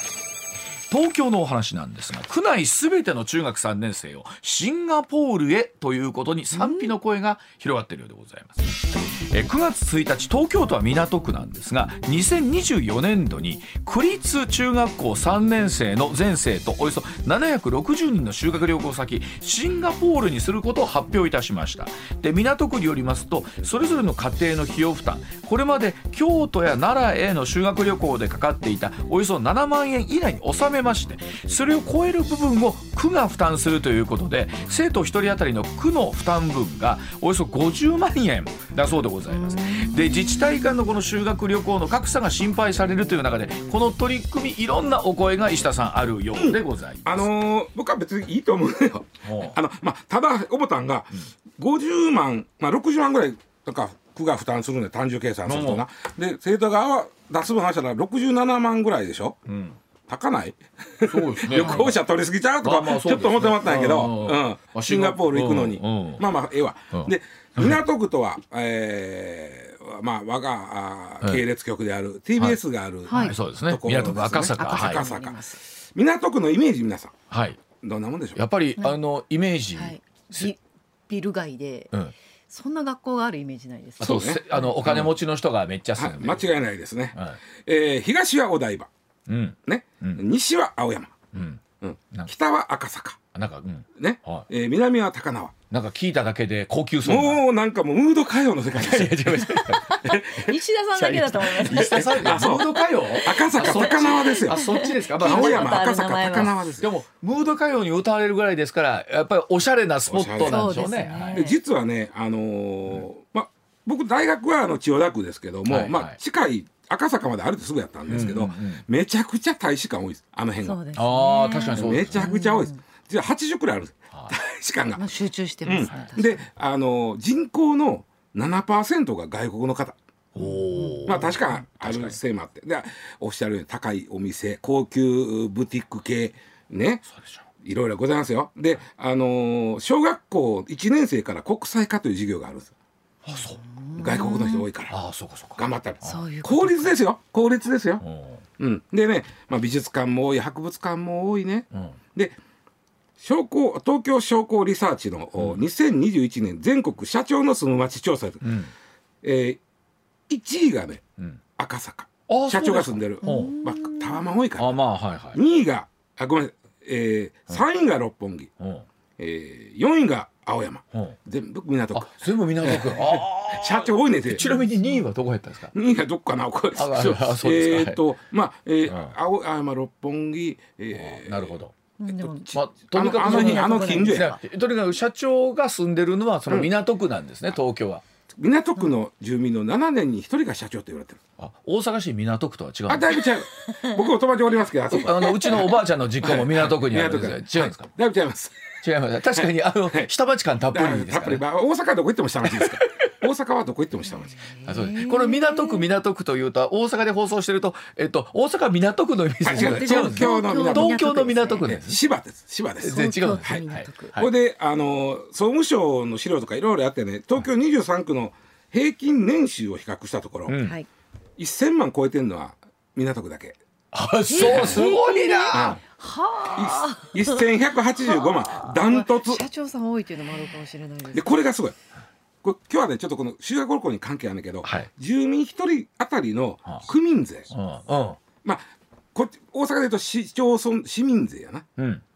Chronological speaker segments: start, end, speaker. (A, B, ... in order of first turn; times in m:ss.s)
0:00.9-0:47.3 A
0:06.6-0:06.9 B
0:39.3-0:40.7 B
0:46.4-0:59.4 C
0:49.2-0:49.6 A
0:55.5-0:55.8 A
0:59.5-0:59.8 A
1:00.1-1:15.4 C
1:01.1-1:02.0 A
1:01.5-1:01.9 B
1:02.6-1:06.3 A
1:06.9-1:07.8 A
1:12.4-1:15.1 A
1:13.1-1:13.4 B
1:14.5-1:15.6 B
1:15.9-1:17.1 C
1:17.3-1:17.6 A
1:17.8-1:18.4 C
1:18.4-1:20.5 A
1:19.8-1:21.9 B
1:22.5-1:24.8 B
1:24.0-1:26.5 A
1:24.0-1:25.2 C
1:26.0-1:28.9 C
1:27.1-1:27.4 A
1:29.3-1:30.2 A
1:29.7-1:31.2 C
1:31.3-1:32.3 A
1:31.8-1:33.2 C
1:33.3-1:34.5 A
1:34.0-1:35.6 C
1:35.7-1:37.4 A
1:37.0-1:40.6 C
1:38.7-1:40.1 A
1:39.9-1:46.5 B
1:41.0-1:45.9 A
1:41.7-1:44.6 C
1:45.2-1:46.9 C
1:46.8-1:51.4 A
1:50.1-1:50.8 C
1:50.4-1:51.6 B
1:51.3-2:00.8 C
1:55.7-1:56.2 A
1:58.1-1:58.8 A
2:00.6-2:02.8 B
2:01.0-2:02.3 A
2:01.7-2:05.0 C
2:05.0-2:06.4 B
2:05.7-2:10.0 C
2:05.8-2:06.1 A
2:10.4-2:12.2 A
2:10.5-2:11.2 B
2:11.1-2:17.0 C
2:17.1-2:17.4 A
2:17.6-2:22.7 C
2:23.2-2:23.6 A
2:23.6-2:24.7 B
2:24.0-2:25.0 C
2:24.9-2:26.2 A
2:25.6-2:28.0 C
2:26.0-2:26.9 B
2:28.0-2:28.4 A
2:28.6-2:32.4 C
2:31.7-2:32.0 A
2:33.2-2:38.5 C
2:38.4-2:38.7 A
2:39.2-2:39.6 C
2:40.3-2:41.0 C
2:41.6-2:44.8 C
2:42.3-2:43.6 A
2:43.2-2:44.2 B
2:44.6-2:45.4 A
2:45.3-2:48.5 C
2:48.6-2:48.9 A
2:49.2-2:54.5 C
2:51.9-2:55.7 A
2:54.4-2:55.1 B
2:55.7-3:01.6 C
2:56.8-2:58.0 A
2:58.9-2:59.1 A
3:00.9-3:01.7 A
3:02.0-3:04.4 B
3:02.2-3:04.4 C
3:02.5-3:08.0 A
3:08.4-3:11.2 C
3:11.4-3:13.1 A
3:12.9-3:18.6 C
3:14.9-3:17.9 A
3:18.8-3:21.4 A
3:19.4-3:20.1 C
3:20.7-3:24.4 C
3:22.4-3:23.1 A
3:24.4-3:25.9 B
3:24.7-3:32.0 A
3:29.4-3:31.0 C
3:29.5-3:31.7 B
3:31.6-3:33.6 C
3:32.8-3:34.3 A
3:32.8-3:34.2 B
3:34.2-3:40.6 C
3:40.5-3:40.8 A
3:41.4-3:43.6 C
3:43.9-3:45.8 A
3:44.3-3:47.4 B
3:44.4-3:44.9 C
3:45.5-3:45.8 C
3:46.5-3:49.4 C
3:48.1-3:51.4 B
3:51.1-3:51.8 C
3:52.4-3:57.5 C
3:54.6-3:54.9 A
3:57.5-3:58.2 A
3:58.4-4:01.7 C
4:01.8-4:02.0 A